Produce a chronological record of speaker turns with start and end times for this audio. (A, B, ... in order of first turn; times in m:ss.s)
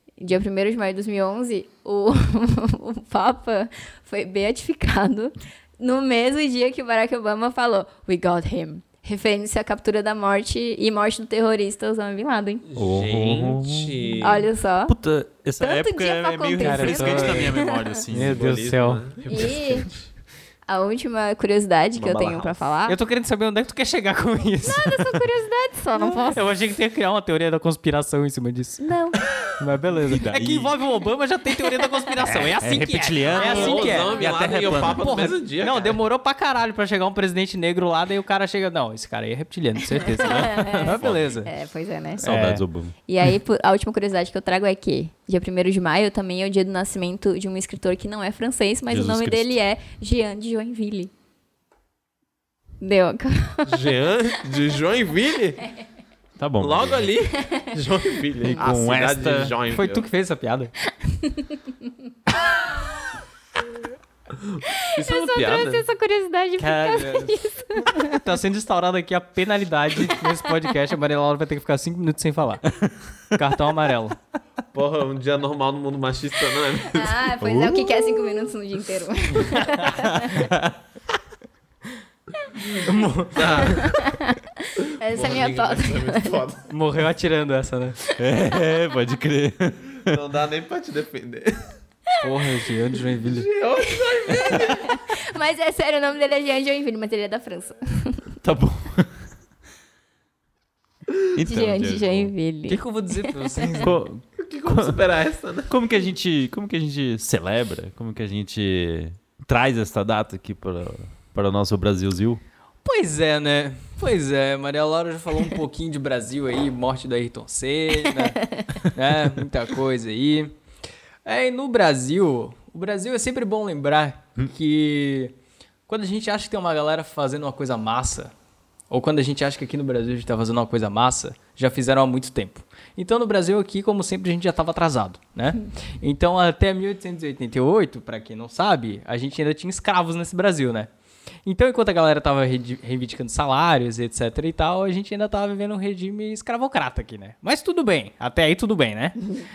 0:00.2-0:12.6 A
0:12.7-0:14.5 B
0:12.8-0:18.6 C
0:14.2-0:14.9 A
0:15.6-0:18.0 A
0:16.6-0:17.5 D
0:18.1-0:19.0 D
0:18.2-0:20.0 B
0:19.3-0:19.9 A
0:20.7-0:23.0 A
0:22.0-0:22.5 C
0:22.9-0:25.2 D
0:24.6-0:26.4 A
0:25.9-0:28.8 D
0:28.8-0:29.2 A
0:29.6-0:41.5 D
0:29.9-0:30.8 C
0:32.2-0:35.1 C
0:33.4-0:36.0 B
0:33.4-0:33.9 A
0:39.9-0:42.2 A
0:40.1-0:41.3 C
0:42.2-0:42.9 C
0:42.2-0:42.6 D
0:43.1-0:51.1 A
0:48.9-0:49.6 C
0:52.8-0:53.9 A
0:53.7-0:55.6 B
0:56.4-0:57.1 C
0:56.6-1:00.1 B
0:58.4-0:59.6 C
0:59.7-1:00.7 D
1:01.0-1:01.5 A
1:04.4-1:05.8 B
1:04.9-1:08.2 A
1:06.6-1:07.4 D
1:08.1-1:12.6 D
1:13.4-1:14.2 D
1:14.7-1:17.2 B
1:16.9-1:20.4 A
1:17.4-1:18.0 C
1:22.8-1:23.5 D
1:23.3-1:24.1 B
1:23.7-1:24.4 A
1:25.0-1:26.4 A
1:25.1-1:26.6 B
1:26.7-1:28.0 D
1:28.2-1:30.2 C
1:30.1-1:31.7 B
1:32.2-1:33.5 D
1:33.2-1:35.0 B
1:33.8-1:38.2 A
1:38.4-1:39.2 C
1:41.3-1:42.3 C
1:41.4-1:43.6 A
1:42.7-1:43.9 D
1:43.8-1:45.0 C
1:44.4-1:45.7 B
1:45.7-1:52.4 C
1:52.8-2:00.5 D
2:01.2-2:05.3 D
2:05.9-2:08.3 D
2:08.9-2:20.9 D
2:21.4-2:29.2 D